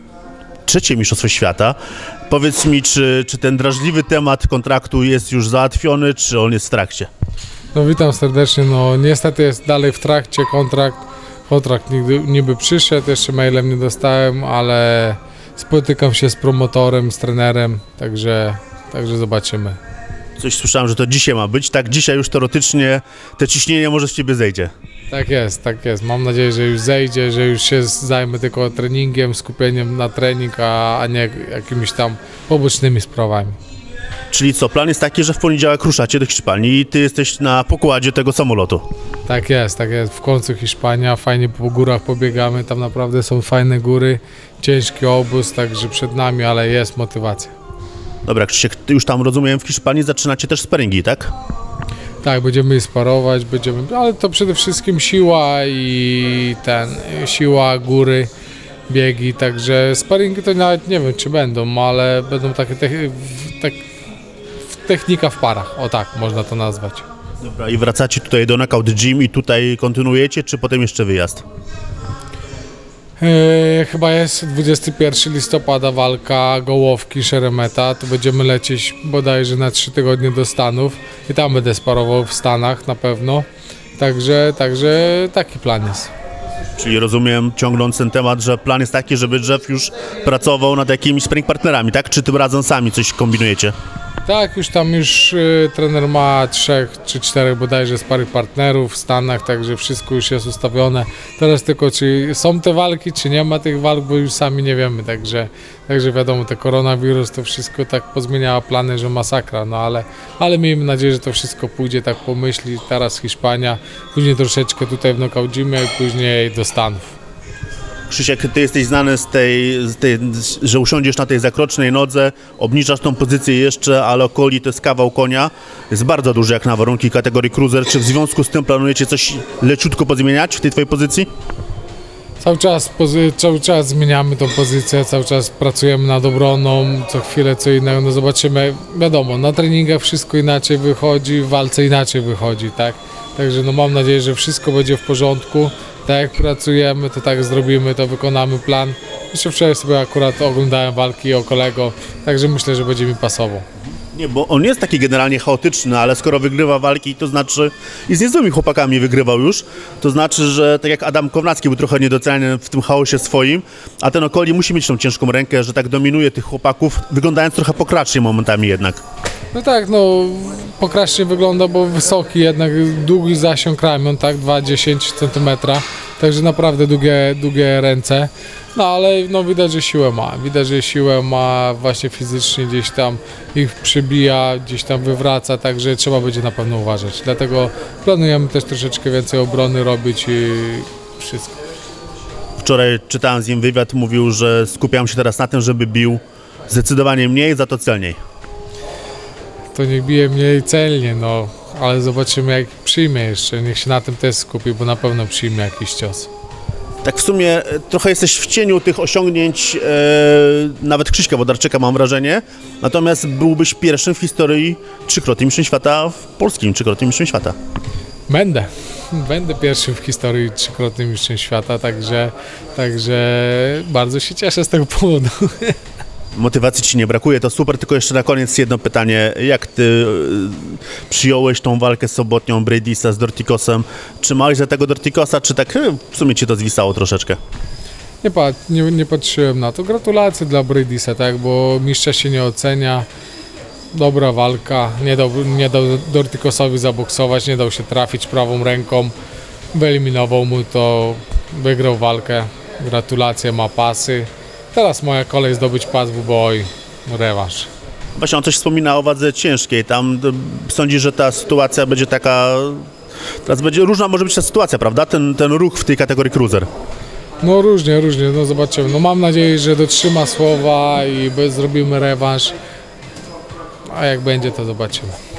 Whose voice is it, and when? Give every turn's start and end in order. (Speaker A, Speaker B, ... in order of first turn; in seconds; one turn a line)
Speaker A: 0.7-1.8
Speaker A: 2.3-7.1
Speaker B: 7.7-19.8
Speaker A: 20.4-24.7
Speaker B: 25.1-33.6
Speaker A: 34.3-38.8
Speaker B: 39.3-47.5
Speaker A: 48.2-51.3
Speaker B: 52.2-58.3
Speaker B: 58.9-63.8
Speaker B: 64.8-67.1
Speaker A: 67.4-71.4
Speaker B: 73.2-83.5
Speaker B: 84.0-86.1
Speaker A: 86.8-93.7
Speaker B: 94.2-117.1
Speaker A: 118.1-131.3
Speaker B: 132.4-153.7
Speaker A: 154.1-169.0
Speaker B: 169.5-191.5
Speaker A: 192.6-198.2
Speaker B: 199.7-206.3
Speaker A: 207.0-217.5
Speaker B: 218.3-225.8
Speaker A: 226.3-237.4
Speaker B: 238.2-243.1
Speaker B: 243.9-249.1
Speaker B: 249.7-257.7
Speaker A: 258.2-262.9
Speaker A: 263.4-266.7
Speaker B: 267.4-272.5
Speaker B: 273.9-275.2